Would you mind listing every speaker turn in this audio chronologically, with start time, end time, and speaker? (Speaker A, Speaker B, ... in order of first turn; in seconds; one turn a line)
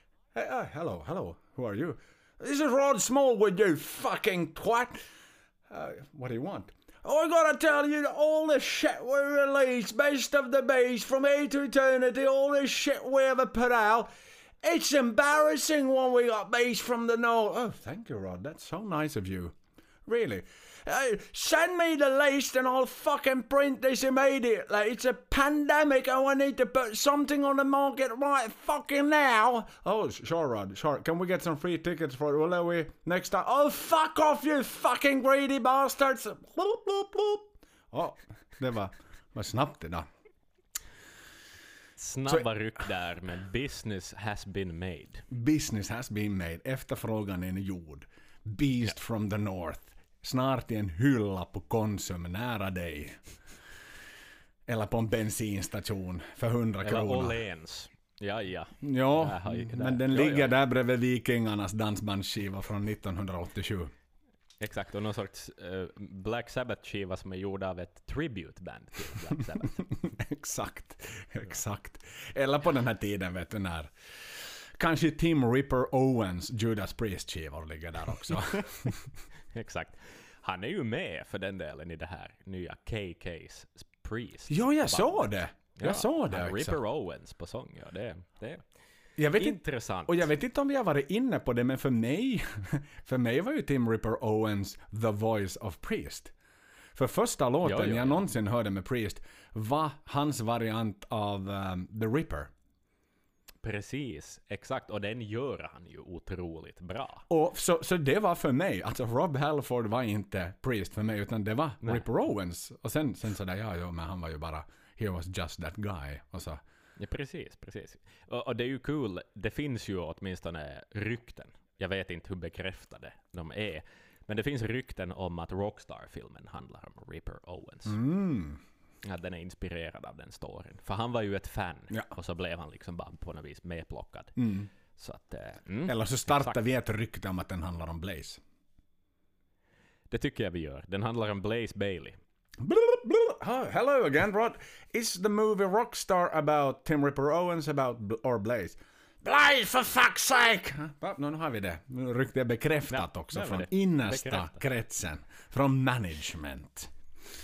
Speaker A: 0.3-5.0
Speaker A: 5.7-14.1
Speaker A: 14.6-40.1
Speaker B: 42.0-45.2
Speaker A: 45.3-53.2
Speaker A: 54.6-57.4
Speaker B: 56.8-60.5
Speaker A: 58.8-63.9
Speaker B: 64.6-70.0
Speaker A: 69.6-79.1
Speaker B: 79.5-88.6
Speaker A: 84.5-86.8
Speaker A: 89.2-96.3
Speaker B: 89.3-90.3
Speaker A: 96.9-102.5
Speaker B: 97.6-98.2
Speaker B: 103.6-107.2
Speaker A: 107.3-116.6
Speaker B: 117.0-128.0
Speaker A: 127.9-128.6
Speaker B: 129.0-134.4
Speaker A: 134.4-134.7
Speaker B: 134.9-136.6
Speaker A: 135.8-138.4
Speaker B: 140.1-142.2
Speaker A: 142.6-156.9
Speaker B: 152.9-154.6